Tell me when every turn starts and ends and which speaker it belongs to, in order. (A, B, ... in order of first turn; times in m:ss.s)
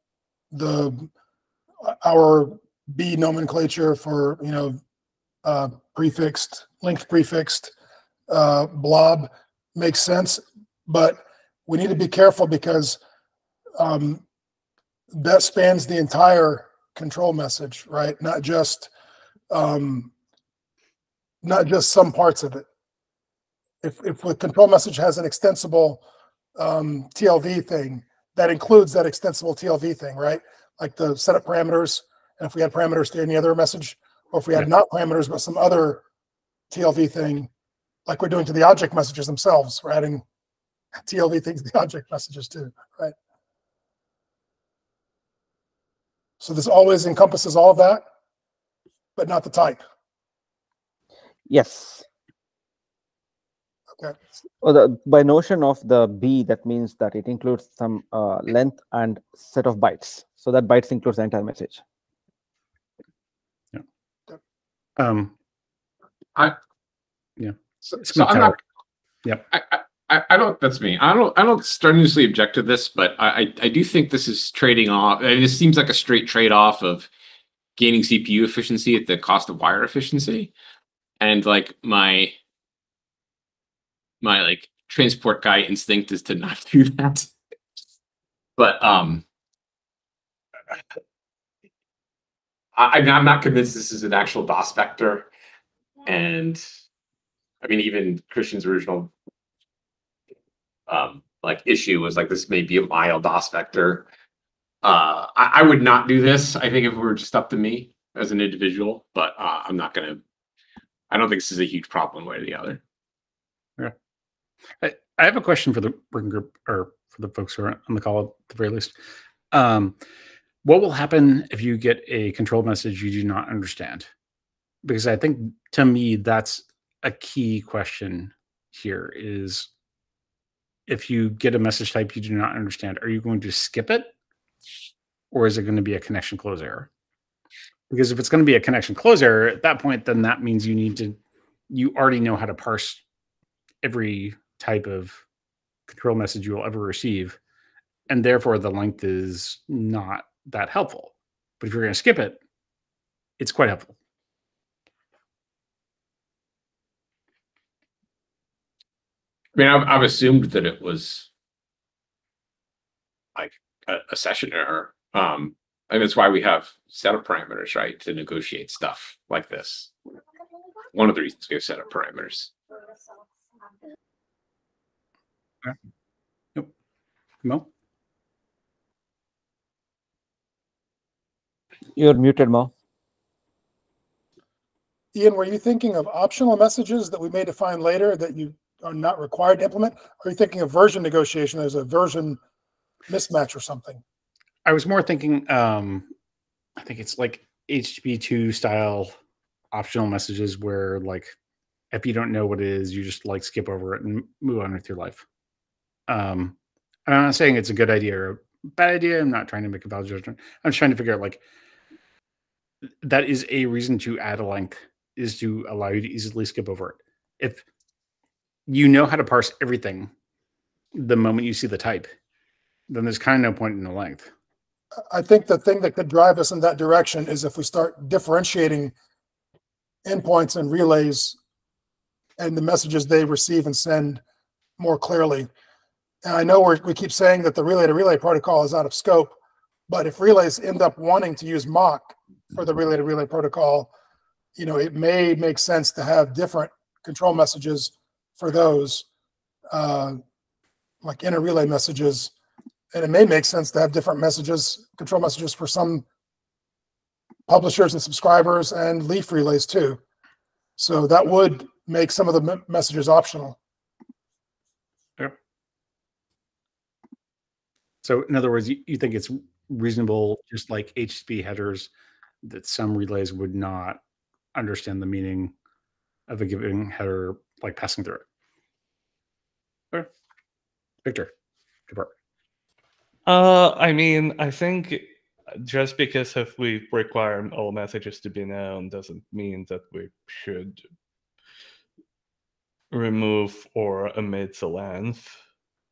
0:00.5-0:01.1 A
0:01.8-0:04.8 A
0:05.4-0:07.7 A
0:08.3-0:13.0 A
0:13.8-0:14.2 A
0:15.1-0:18.9 A
0:19.5-0:20.1 A
0:21.4-0:22.6 A
0:23.8-0:26.0 A
0:26.6-0:36.0 A
0:36.7-0:37.5 A
0:38.0-0:40.2 A
0:41.0-0:43.1 A
0:46.4-0:48.0 A
0:49.2-0:49.8 A
0:51.5-0:52.0 B
0:54.6-1:01.8 B
1:05.0-1:05.3 C
1:07.4-1:08.6 C
1:07.8-1:08.6 D
1:09.5-1:17.1 D
1:17.8-1:20.5 D
1:21.2-1:22.3 D
1:24.2-1:27.3 D
1:28.6-1:29.2 D
1:32.8-1:35.3 D
1:36.0-1:36.6 D
1:37.6-1:39.1 D
1:40.9-1:44.0 D
1:44.8-1:50.2 D
1:51.1-1:52.8 D
1:54.8-1:59.0 C
1:59.5-2:00.0 C
2:00.6-2:04.1 C
2:04.8-2:09.7 C
2:10.9-2:14.1 C
2:15.3-2:16.9 C
2:17.9-2:21.2 C
2:21.7-2:23.0 C
2:23.8-2:25.2 C
2:25.9-2:27.4 C
2:28.1-2:32.4 C
2:33.4-2:33.9 C
2:39.5-2:41.3 D
2:43.4-2:49.9 D
2:50.9-2:52.5 D
3:02.0-3:02.7 B
3:05.1-3:12.4 A
3:13.1-3:14.0 A
3:14.6-3:16.1 C
3:16.8-3:19.1 C
3:19.7-3:21.3 C
3:21.9-3:25.2 C
3:26.1-3:31.4 C
3:33.0-3:37.6 C
3:38.7-3:40.1 C
3:40.9-3:42.1 C
3:42.9-3:44.3 C
3:45.1-3:48.9 A
3:50.0-3:51.4 A
3:52.4-3:54.2 A
3:54.8-3:55.5 A
3:56.2-3:59.3 A
3:59.9-4:03.9 A
4:04.6-4:09.0 A
4:09.7-4:10.2 A
4:11.0-4:12.3 A
4:12.9-4:16.0 A
4:17.5-4:20.0 A
4:20.8-4:23.6 A
4:28.0-4:31.9 C
4:32.4-4:34.0 C
4:34.5-4:35.5 C
4:36.3-4:38.2 C
4:41.0-4:41.3 C
4:43.2-4:45.0 E
4:45.6-4:50.8 E
4:52.9-4:55.4 E